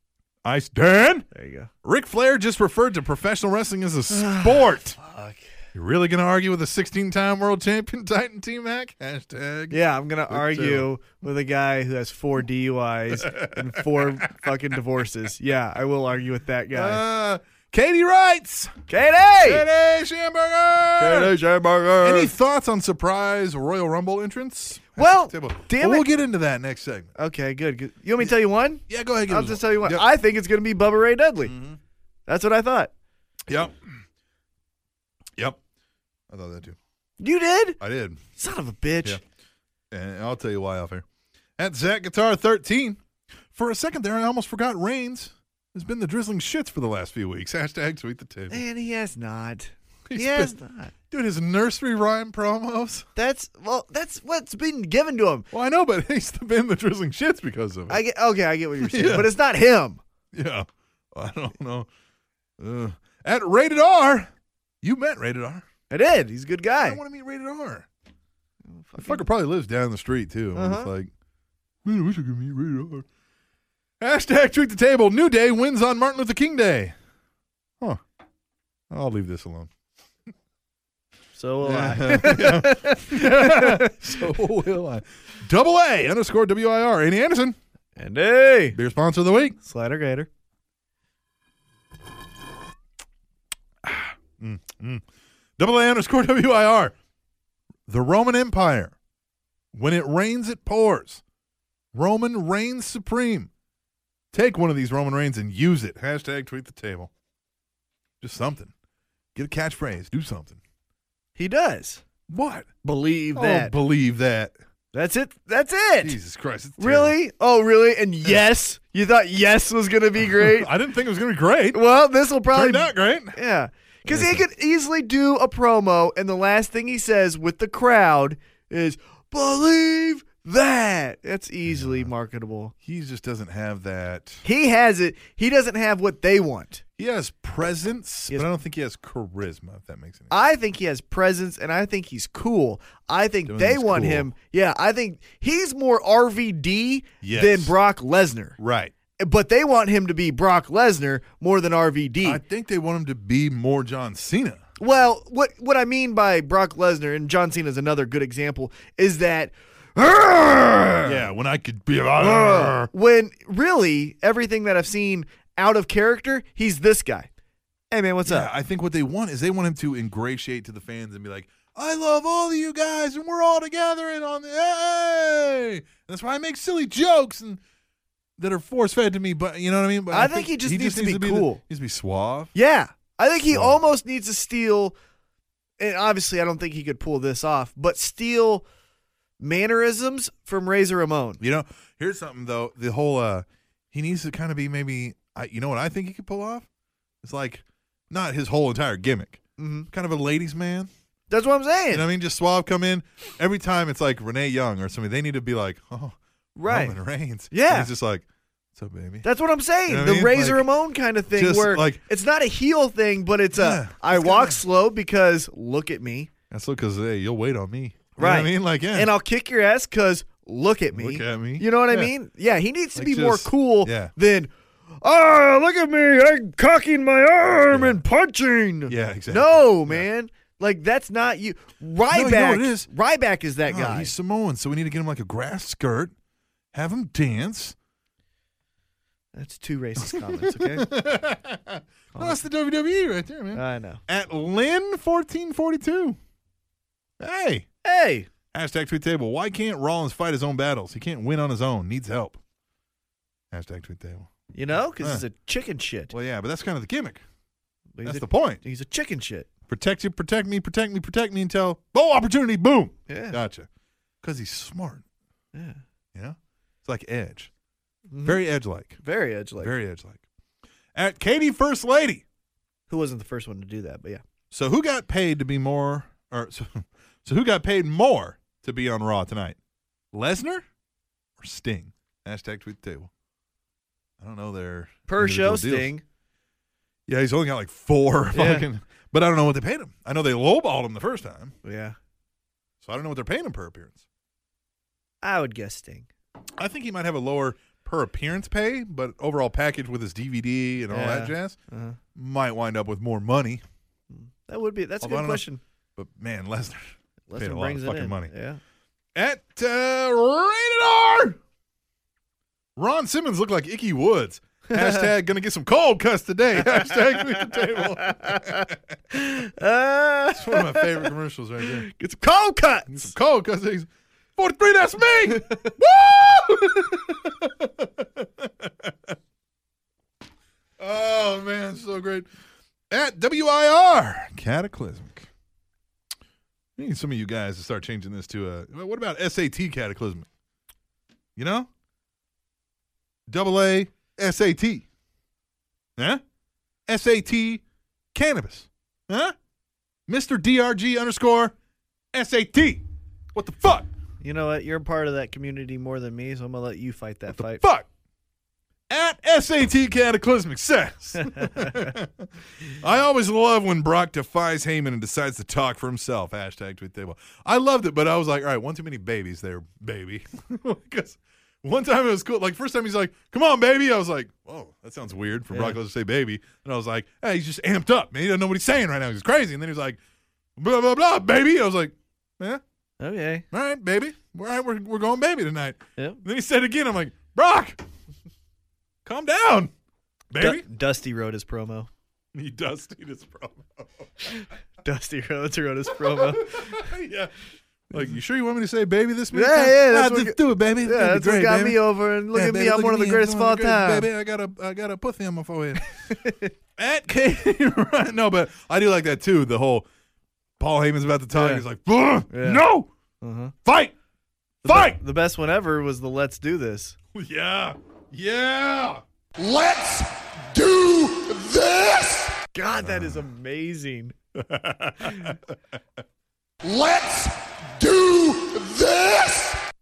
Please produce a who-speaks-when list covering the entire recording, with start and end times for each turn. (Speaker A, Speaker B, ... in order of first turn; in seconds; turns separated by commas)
Speaker A: 0.4-1.3, Speaker B: 1.3-1.7, Speaker A: 1.8-5.0, Speaker B: 4.1-5.5, Speaker A: 5.7-9.8, Speaker B: 9.7-17.0, Speaker A: 10.3-10.9, Speaker A: 13.2-14.2, Speaker A: 16.7-18.8, Speaker B: 18.9-19.7, Speaker A: 19.4-21.4, Speaker B: 21.0-22.3, Speaker A: 22.0-27.1, Speaker B: 25.0-26.1, Speaker B: 27.2-31.6, Speaker A: 28.9-30.1, Speaker A: 31.4-31.8, Speaker B: 32.3-32.9, Speaker A: 33.5-34.0, Speaker A: 36.3-36.8, Speaker B: 37.2-37.8, Speaker A: 37.8-38.2, Speaker B: 38.4-39.2, Speaker A: 39.9-41.0, Speaker A: 41.6-43.0, Speaker A: 43.5-48.6, Speaker B: 48.5-50.9, Speaker A: 50.1-50.5, Speaker A: 51.1-53.1, Speaker B: 53.2-55.5, Speaker A: 55.5-58.0, Speaker B: 57.9-60.0, Speaker A: 58.8-59.3, Speaker A: 60.3-61.9, Speaker A: 62.6-64.3, Speaker A: 64.8-65.7, Speaker B: 65.9-67.0, Speaker A: 66.8-67.9, Speaker B: 68.7-69.3, Speaker A: 69.0-71.1, Speaker B: 70.5-70.9, Speaker A: 71.8-73.1, Speaker A: 74.0-77.0, Speaker A: 78.9-79.7, Speaker B: 81.3-84.0, Speaker A: 81.6-87.6, Speaker B: 88.0-88.8, Speaker A: 88.7-89.6, Speaker B: 89.6-90.3, Speaker A: 93.8-95.0, Speaker A: 95.6-96.9, Speaker A: 97.9-98.9, Speaker A: 99.7-101.2, Speaker A: 101.9-103.5, Speaker A: 104.3-107.1, Speaker A: 108.2-108.7, Speaker A: 109.3-110.6, Speaker B: 111.4-112.0, Speaker A: 112.3-112.7, Speaker B: 112.8-113.7, Speaker A: 113.3-114.5, Speaker B: 114.9-116.2, Speaker A: 116.0-117.2, Speaker B: 116.8-120.7, Speaker A: 120.2-121.8, Speaker B: 121.7-132.7, Speaker A: 122.5-123.4, Speaker A: 124.1-124.4, Speaker A: 131.7-132.1, Speaker A: 132.8-134.4, Speaker B: 134.4-136.8, Speaker A: 137.0-140.3, Speaker B: 140.3-148.6, Speaker A: 143.5-144.3, Speaker A: 147.2-147.7, Speaker A: 148.6-148.9, Speaker B: 149.2-152.4, Speaker A: 152.2-154.6, Speaker B: 154.8-161.2, Speaker A: 161.1-162.9, Speaker B: 162.2-167.3, Speaker B: 167.9-168.5, Speaker A: 168.2-177.6, Speaker A: 178.4-182.5, Speaker B: 180.1-181.6, Speaker B: 182.5-184.9, Speaker A: 183.5-183.8, Speaker B: 185.8-188.7, Speaker B: 189.4-191.4, Speaker A: 191.4-196.7, Speaker A: 197.2-200.9, Speaker B: 199.6-199.9, Speaker B: 201.3-202.1, Speaker A: 201.9-209.3, Speaker B: 206.6-207.0, Speaker B: 207.5-207.9, Speaker B: 209.2-216.3, Speaker A: 209.9-210.7, Speaker A: 211.3-212.0, Speaker A: 213.6-214.6, Speaker A: 216.5-219.1, Speaker B: 218.2-234.1, Speaker A: 220.9-222.1, Speaker A: 222.9-224.1, Speaker A: 227.7-228.0, Speaker A: 228.9-230.1, Speaker A: 232.1-232.9, Speaker A: 233.7-236.1, Speaker A: 236.7-237.8, Speaker B: 239.3-240.9, Speaker A: 240.0-246.2, Speaker B: 242.1-242.4, Speaker B: 243.5-244.0, Speaker A: 247.2-247.7, Speaker B: 247.8-248.3, Speaker A: 248.5-252.4, Speaker A: 253.5-254.3, Speaker B: 254.5-256.1, Speaker A: 255.0-255.2, Speaker A: 256.1-257.2, Speaker B: 258.0-259.5, Speaker A: 258.0-258.6, Speaker A: 259.7-263.7, Speaker B: 263.1-263.4, Speaker A: 264.2-265.0, Speaker B: 265.5-265.8, Speaker A: 266.1-267.5, Speaker B: 268.1-268.4, Speaker A: 268.2-269.0, Speaker B: 269.0-269.7, Speaker A: 269.6-270.2, Speaker A: 270.9-272.2, Speaker B: 272.9-274.2, Speaker A: 274.5-279.6, Speaker A: 280.1-280.6, Speaker A: 281.4-283.1, Speaker A: 284.2-285.9, Speaker B: 285.1-286.0, Speaker A: 287.1-291.6, Speaker B: 288.3-288.7, Speaker B: 291.6-292.0, Speaker A: 292.8-294.0, Speaker B: 295.2-296.1, Speaker A: 296.6-301.6, Speaker B: 300.9-302.0, Speaker A: 302.1-303.6, Speaker B: 304.1-305.6, Speaker A: 305.0-305.4, Speaker A: 306.0-308.3, Speaker B: 307.3-308.6, Speaker A: 309.1-311.4, Speaker A: 312.8-318.8, Speaker B: 314.7-315.1, Speaker B: 316.6-321.1, Speaker A: 320.3-321.9, Speaker B: 321.6-323.1, Speaker A: 322.9-329.1, Speaker B: 325.3-325.7, Speaker A: 330.8-332.3, Speaker A: 332.9-335.3, Speaker A: 336.8-340.3, Speaker A: 341.4-341.7, Speaker A: 343.3-344.9, Speaker A: 346.0-346.2, Speaker A: 346.9-347.6, Speaker A: 348.1-349.4, Speaker A: 350.1-351.6, Speaker A: 352.1-353.9, Speaker B: 354.2-357.6, Speaker A: 357.3-357.9, Speaker A: 358.9-380.0, Speaker B: 361.3-361.9, Speaker B: 375.5-375.8, Speaker A: 380.6-382.6, Speaker B: 383.0-383.5, Speaker A: 383.5-387.8, Speaker A: 389.1-389.7, Speaker A: 390.3-390.6, Speaker B: 390.4-391.9, Speaker A: 392.3-394.3, Speaker B: 394.8-396.9, Speaker A: 396.0-397.3, Speaker A: 397.9-401.8, Speaker B: 399.3-404.1, Speaker A: 402.3-406.3, Speaker B: 405.8-406.5, Speaker A: 406.8-409.9, Speaker A: 410.6-412.9, Speaker B: 411.3-411.6, Speaker B: 412.3-412.6, Speaker B: 413.2-413.6, Speaker A: 413.6-413.9, Speaker A: 414.6-415.0, Speaker B: 414.6-417.0, Speaker A: 417.1-419.0, Speaker C: 419.4-422.4, Speaker B: 422.5-424.1, Speaker A: 422.8-423.3, Speaker A: 424.4-425.6, Speaker C: 426.6-429.6